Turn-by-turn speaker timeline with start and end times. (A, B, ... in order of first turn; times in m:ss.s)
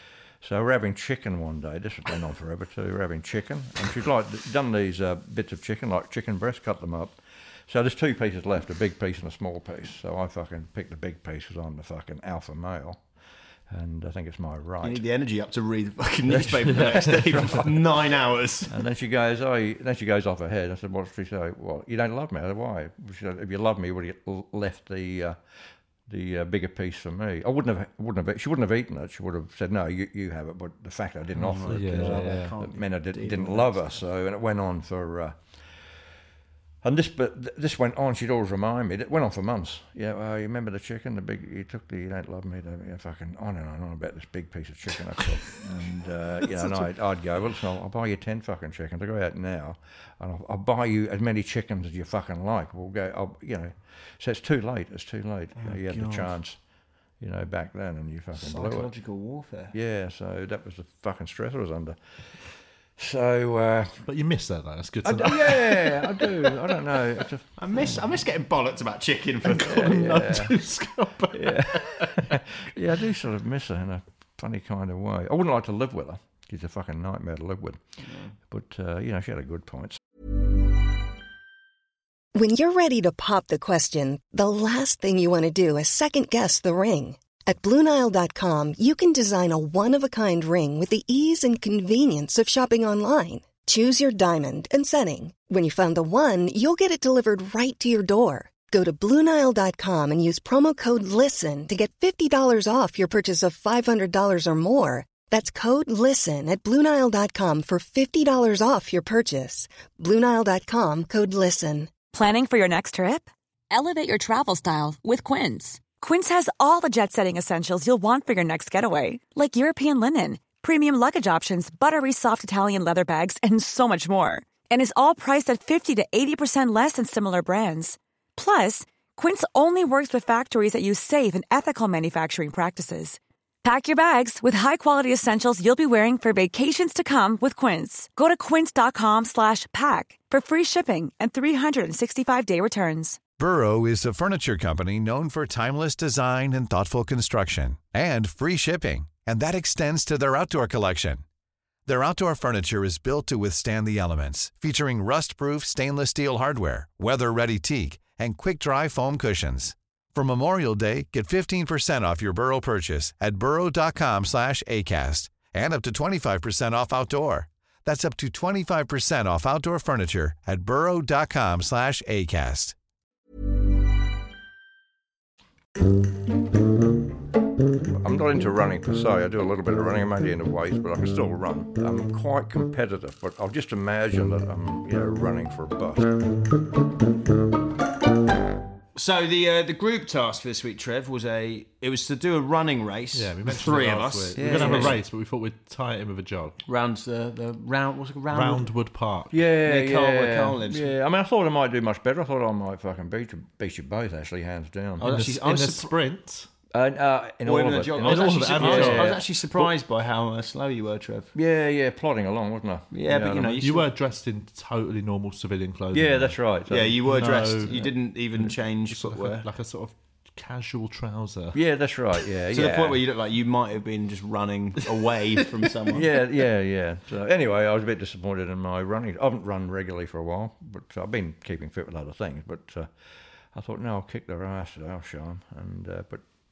0:00.4-0:07.2 A
0:07.7-0:13.0 A
0:13.7-0:15.0 A
0:14.8-0:18.7 B
0:16.3-0:18.2 A
0:18.7-0:25.4 A
0:26.1-0:35.4 A
0:31.4-0:34.0 B
0:31.6-0:32.5 C
0:36.8-0:56.6 A
0:46.5-0:46.9 B
0:55.6-0:56.4 B
0:57.2-0:58.9 A
0:58.4-0:59.7 B
0:59.7-1:02.0 A
1:03.0-1:04.0 A
1:04.1-1:06.7 C
1:05.0-1:07.5 A
1:07.6-1:10.3 B
1:09.4-1:12.4 C
1:09.6-1:10.5 A
1:11.3-1:17.8 A
1:18.5-1:20.0 A
1:22.4-1:51.9 D
1:52.1-2:23.2 E
2:23.4-2:31.2 F
2:31.9-2:52.8 F
2:58.0-3:06.1 A
3:09.0-3:15.0 B
3:13.1-3:16.6 C
3:14.4-3:15.0 A
3:16.7-3:18.7 B
3:18.3-3:19.4 C
3:19.3-3:25.1 A
3:19.6-3:20.9 B
3:25.0-3:25.9 B
3:25.0-3:26.5 C
3:26.7-3:29.7 A
3:27.4-3:31.3 B
3:28.0-3:29.2 C
3:31.4-3:33.6 A
3:32.9-3:33.9 B
3:33.6-3:36.4 C
3:35.9-3:37.0 A
3:36.7-3:39.5 B
3:37.0-3:41.6 C
3:41.5-3:43.0 A
3:42.5-3:46.1 B
3:45.9-3:52.9 A
3:53.5-3:56.2 A